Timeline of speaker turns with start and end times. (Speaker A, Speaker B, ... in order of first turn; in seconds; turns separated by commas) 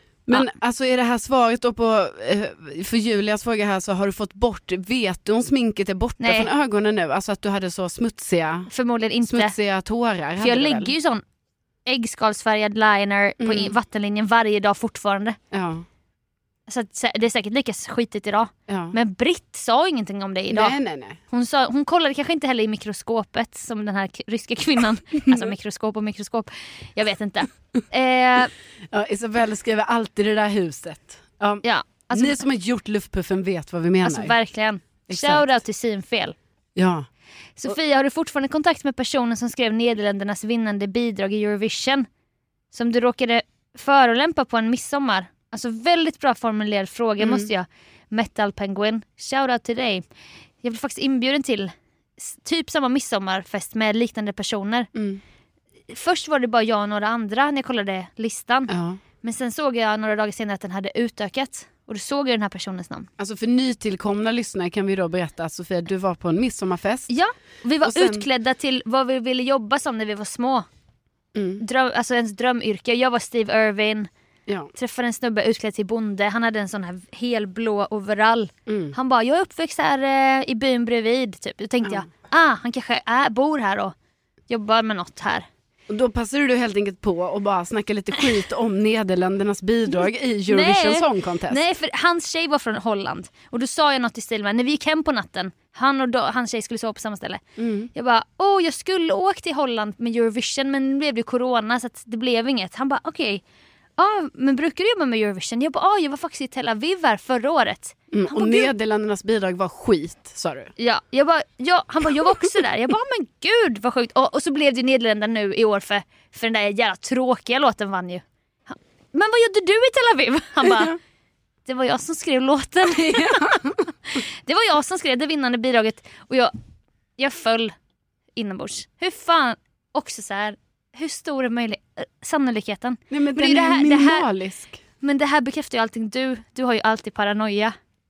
Speaker A: 0.3-8.7, Speaker B: 6.2-6.5, Speaker B: 8.7-9.5, Speaker A: 9.2-10.9, Speaker B: 10.4-11.2, Speaker B: 11.9-15.4, Speaker A: 13.4-13.8, Speaker A: 15.5-15.9, Speaker B: 16.7-20.8, Speaker A: 18.7-18.9, Speaker A: 20.5-21.2, Speaker B: 21.3-28.5, Speaker A: 25.3-25.5, Speaker A: 28.9-34.4, Speaker B: 31.6-32.4, Speaker B: 34.0-36.4, Speaker A: 35.1-35.5, Speaker A: 36.8-37.1, Speaker B: 37.6-42.1, Speaker B: 42.7-50.0, Speaker A: 47.2-47.5, Speaker B: 50.6-54.9, Speaker A: 55.0-55.2, Speaker B: 55.9-63.1, Speaker A: 58.7-59.0, Speaker A: 63.2-67.1, Speaker B: 67.1-70.7, Speaker A: 67.8-68.3, Speaker A: 71.3-71.6, Speaker B: 71.6-74.1, Speaker B: 74.7-84.0, Speaker A: 78.7-79.0, Speaker B: 84.5-85.5, Speaker A: 85.9-91.6, Speaker B: 90.5-97.4, Speaker A: 97.6-97.9, Speaker B: 97.9-103.4, Speaker B: 104.0-108.7, Speaker A: 108.1-110.7, Speaker B: 110.8-121.0, Speaker A: 120.6-121.0, Speaker B: 121.7-126.5, Speaker A: 122.8-123.8, Speaker B: 127.2-127.7, Speaker B: 128.4-134.3, Speaker A: 133.1-134.8, Speaker B: 135.0-137.8